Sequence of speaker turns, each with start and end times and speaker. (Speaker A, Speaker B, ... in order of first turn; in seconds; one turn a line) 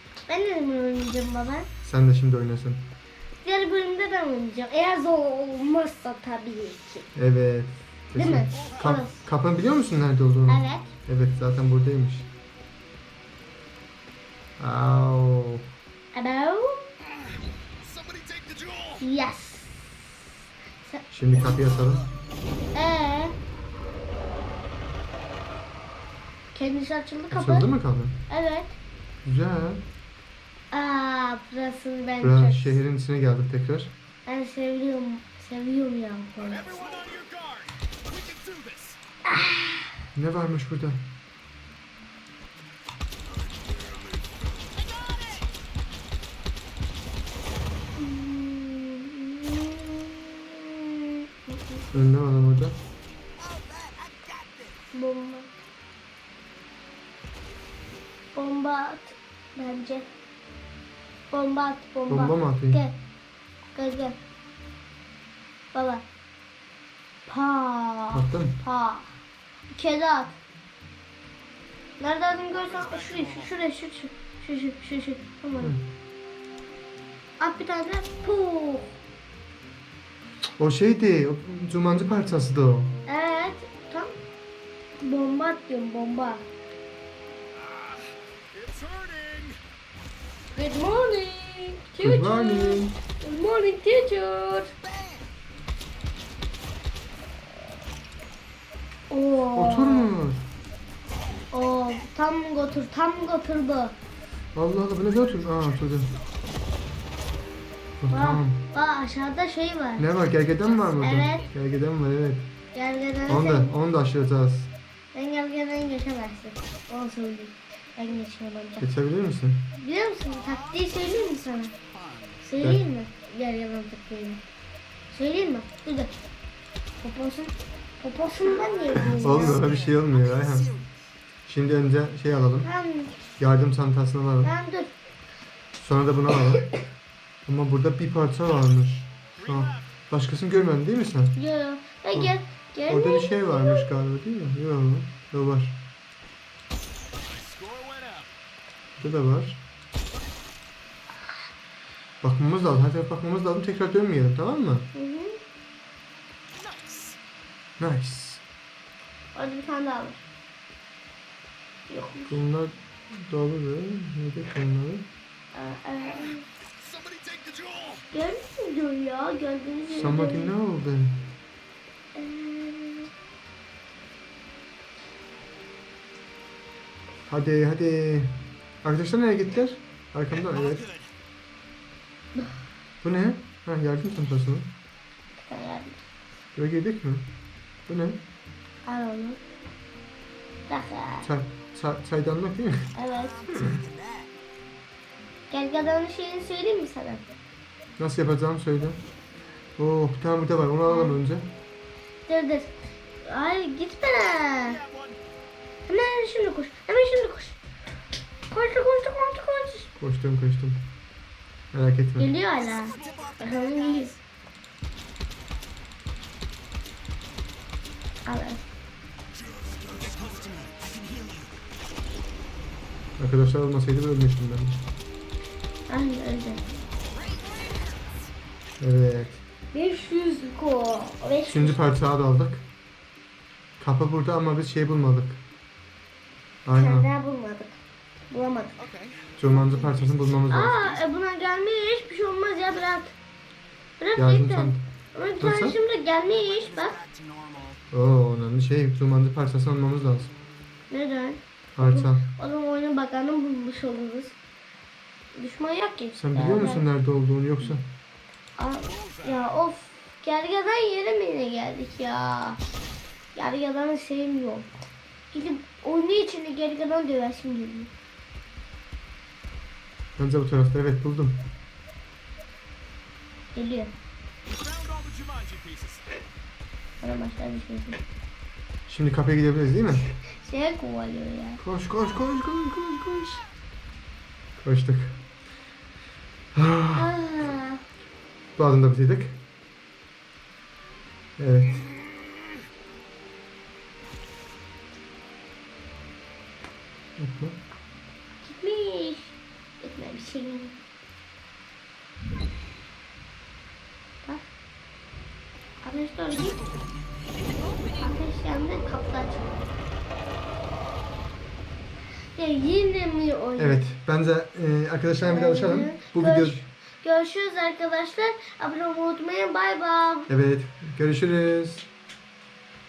Speaker A: 0.3-1.7
Speaker B: 1.8-2.9
Speaker A: 3.4-7.1
Speaker B: 7.2-12.3
Speaker A: 8.2-9.2
Speaker A: 10.5-10.9
Speaker B: 14.6-15.7
Speaker A: 16.1-16.9
Speaker C: 17.8-19.0
Speaker A: 19.0-19.9
Speaker B: 21.1-22.1
Speaker A: 22.7-23.4
Speaker A: 26.5-27.7
Speaker B: 27.3-28.2
Speaker A: 28.3-28.8
Speaker B: 29.2-29.8
Speaker A: 30.7-32.8
Speaker B: 32.2-33.9
Speaker A: 34.3-36.8
Speaker C: 36.5-39.0
Speaker A: 39.2-40.0
Speaker B: 40.1-41.0
Speaker C: 44.8-45.4
Speaker A: 48.0-51.9
Speaker B: 51.9-52.8
Speaker C: 53.4-54.8
Speaker A: 54.9-55.5
Speaker A: 58.3-60.1
Speaker A: 61.3-63.0
Speaker B: 62.1-62.8
Speaker A: 63.8-64.2
Speaker A: 65.7-66.0
Speaker A: 67.3-69.2
Speaker B: 68.1-68.6
Speaker A: 69.7-70.4
Speaker A: 72.0-75.7
Speaker A: 77.4-79.0
Speaker B: 80.6-83.0
Speaker A: 83.1-84.2
Speaker A: 85.0-86.5
Speaker C: 88.5-89.6
Speaker A: 90.5-94.7
Speaker B: 92.0-93.0
Speaker C: 94.9-95.2
Speaker A: 99.1-100.1
Speaker B: 99.5-100.4
Speaker A: 101.5-104.0
Speaker B: 104.5-106.1
Speaker B: 108.0-108.6
Speaker A: 108.1-110.1
Speaker B: 110.0-112.5
Speaker A: 111.0-111.5
Speaker A: 112.7-113.7
Speaker B: 113.3-114.7
Speaker A: 115.1-118.8
Speaker B: 118.8-119.7
Speaker A: 119.8-121.7
Speaker C: 121.9-122.4
Speaker A: 122.4-124.4
Speaker B: 122.6-122.8
Speaker A: 125.1-126.1
Speaker A: 127.0-129.6
Speaker B: 129.1-130.7
Speaker C: 129.6-130.9
Speaker B: 131.5-132.7
Speaker A: 132.6-133.1
Speaker B: 133.4-134.5
Speaker A: 134.4-134.9
Speaker B: 135.8-136.7
Speaker B: 137.5-141.4
Speaker C: 139.4-139.8
Speaker A: 141.4-143.9
Speaker B: 142.9-145.8
Speaker C: 147.3-148.3
Speaker B: 149.0-149.6
Speaker B: 152.2-154.9
Speaker A: 154.9-155.4
Speaker C: 156.6-157.2
Speaker B: 157.8-158.4
Speaker A: 159.3-160.2
Speaker A: 161.9-162.4
Speaker B: 162.3-165.1
Speaker A: 165.5-166.5
Speaker C: 166.8-168.1
Speaker A: 168.1-170.5
Speaker B: 169.9-171.2
Speaker A: 172.2-173.1
Speaker B: 177.3-180.9
Speaker C: 180.8-181.1
Speaker B: 183.0-184.7
Speaker A: 185.4-186.0
Speaker B: 186.6-187.2
Speaker B: 187.9-188.2
Speaker A: 188.8-189.4
Speaker A: 190.7-191.3
Speaker B: 191.2-193.0
Speaker A: 192.9-193.5
Speaker B: 193.5-193.8
Speaker C: 193.6-194.3
Speaker A: 195.5-197.2
Speaker B: 198.0-199.0
Speaker B: 199.8-201.5
Speaker A: 200.9-201.2
Speaker A: 202.3-204.8
Speaker C: 204.8-205.2
Speaker A: 205.9-207.6
Speaker A: 208.5-209.9
Speaker B: 210.0-210.8
Speaker B: 211.7-212.3
Speaker A: 212.2-214.2
Speaker C: 212.8-213.8
Speaker A: 218.3-218.6
Speaker C: 219.5-221.6
Speaker B: 223.2-224.8
Speaker A: 225.9-226.6
Speaker C: 227.1-228.1
Speaker B: 228.8-229.4
Speaker A: 229.7-231.8
Speaker B: 231.5-232.7
Speaker B: 233.8-235.4
Speaker B: 236.7-237.1
Speaker A: 236.7-237.8
Speaker A: 238.3-238.8
Speaker C: 238.8-240.4
Speaker B: 239.4-241.0
Speaker A: 240.5-243.2
Speaker A: 244.0-247.0
Speaker B: 244.2-244.8
Speaker B: 245.4-245.8
Speaker C: 246.7-247.8
Speaker B: 247.9-250.3
Speaker A: 250.9-254.3
Speaker B: 251.8-252.3
Speaker A: 255.3-256.9
Speaker B: 256.2-257.9
Speaker A: 258.6-262.6
Speaker C: 259.0-259.2
Speaker A: 263.3-264.7
Speaker A: 265.3-267.9
Speaker B: 270.2-271.5
Speaker A: 273.6-273.9
Speaker C: 274.5-276.1
Speaker A: 277.0-278.0
Speaker B: 278.9-280.1
Speaker A: 280.4-281.6
Speaker B: 281.6-283.4
Speaker B: 284.6-285.2
Speaker B: 286.5-287.2
Speaker A: 287.0-287.8
Speaker B: 288.6-289.4
Speaker B: 291.4-291.9
Speaker B: 297.2-297.6
Speaker A: 298.4-300.8
Speaker A: 305.8-306.6
Speaker A: 307.8-309.6
Speaker A: 312.3-313.8
Speaker B: 313.6-316.7
Speaker A: 315.2-320.3
Speaker B: 320.3-321.9